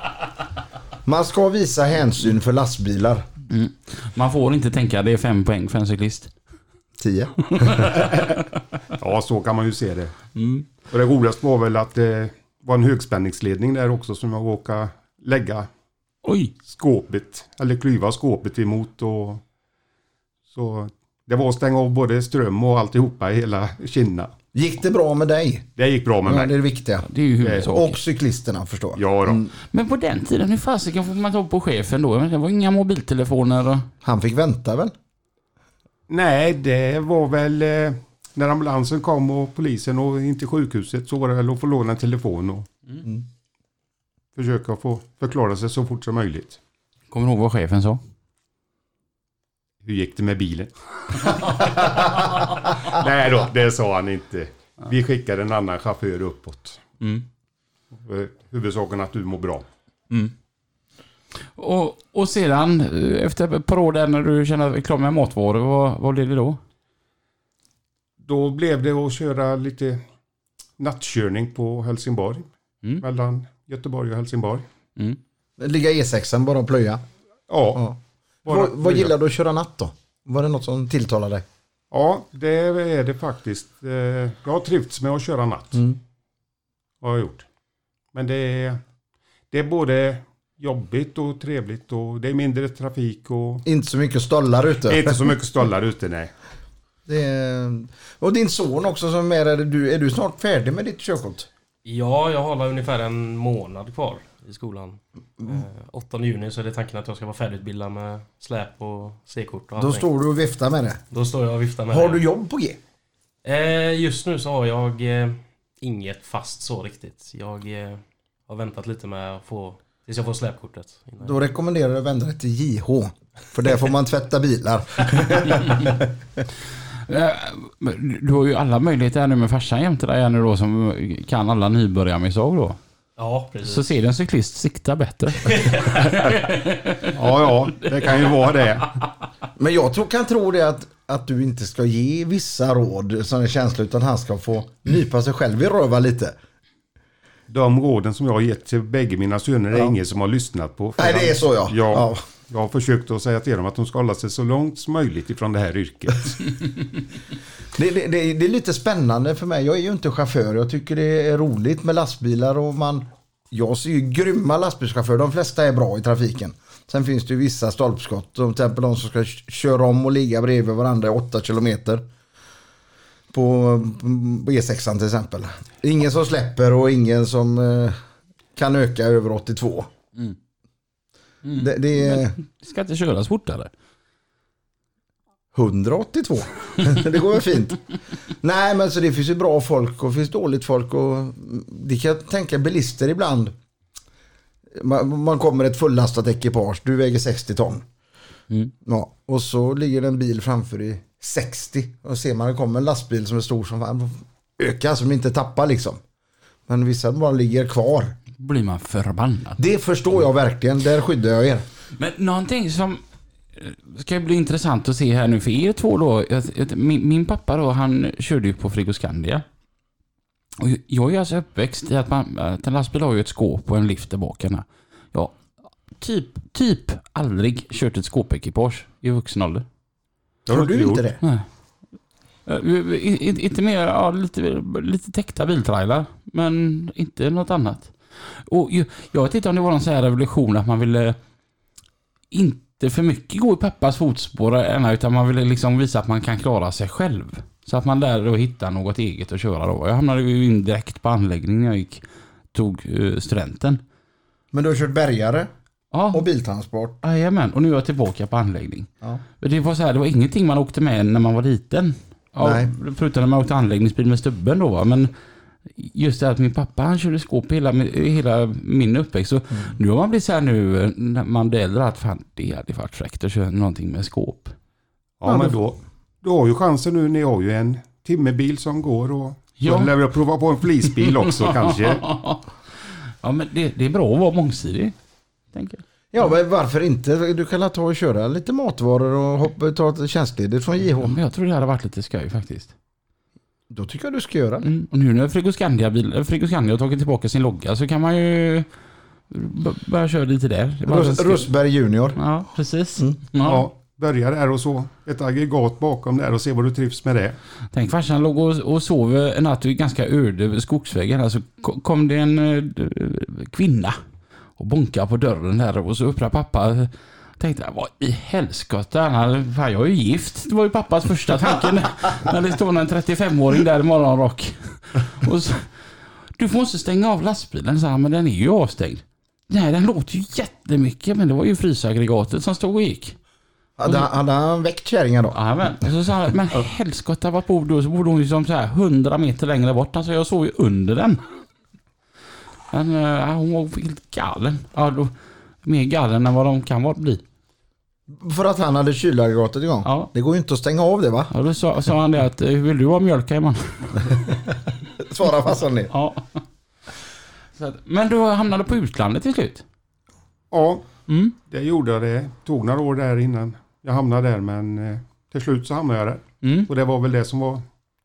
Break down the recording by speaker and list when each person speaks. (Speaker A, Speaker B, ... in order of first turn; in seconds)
Speaker A: 1.1-3.3, 7.0-7.9, 24.5-25.7, 26.2-27.1, 27.6-29.5, 34.0-34.9, 75.6-77.0, 77.8-81.5, 93.7-95.3, 97.1-101.5, 109.8-111.0, 111.9-112.8, 121.2-126.4, 139.6-146.3, 151.0-152.2, 157.7-172.1, 173.3-178.0, 178.6-179.9, 181.5-182.4, 185.5-187.8, 188.4-193.5, 194.7-197.9, 198.8-206.0, 206.7-208.2, 209.6-211.7, 230.5-231.2, 254.5-255.5, 256.1-257.0, 262.4-262.7, 275.2-275.6, 286.1-291.2, 293.7-294.7, 300.9-302.2, 333.8-335.4, 348.1-351.3, 354.9-355.9
Speaker B: 3.5-6.3, 7.6-8.2, 10.4-10.7, 16.2-16.5, 27.0-28.0, 29.7-33.9, 47.1-48.0, 57.0-57.2, 61.6-66.6, 127.1-132.8, 133.6-137.1, 181.4-183.7, 208.4-209.6, 212.0-213.0, 213.6-219.4, 220.6-225.4, 226.0-229.7, 232.5-241.2, 242.3-253.8, 255.9-256.2, 257.0-265.1, 265.8-274.6, 279.6-279.9, 281.0-284.9, 285.5-285.8, 291.0-292.7, 294.6-298.7, 299.3-301.5, 302.2-303.7, 307.7-314.0, 314.6-325.8, 326.4-333.2, 335.3-341.2, 342.7-345.1, 345.6-347.2, 349.9-350.1, 351.3-354.2, 355.9-356.4, 357.6-359.6, 361.1-361.4, 366.4-366.7
Speaker C: 8.9-10.2, 10.9-15.7, 16.6-19.4, 20.5-24.3, 25.8-26.5, 27.4-27.7, 29.0-29.4, 36.1-42.7, 44.4-46.6, 49.8-56.8, 57.9-59.7, 68.2-70.0, 70.8-72.5, 73.0-74.7, 77.5-77.9, 78.5-79.1, 81.9-85.8, 87.0-87.5, 88.1-88.8, 89.5-93.6, 94.9-96.3, 137.1-139.0, 147.5-156.5, 230.5-231.1, 275.2-282.1, 303.4-307.4, 360.5-360.9, 361.5-367.6
Speaker D: 101.8-110.1, 111.1-112.2, 113.4-121.4, 133.2-133.9, 135.5-136.2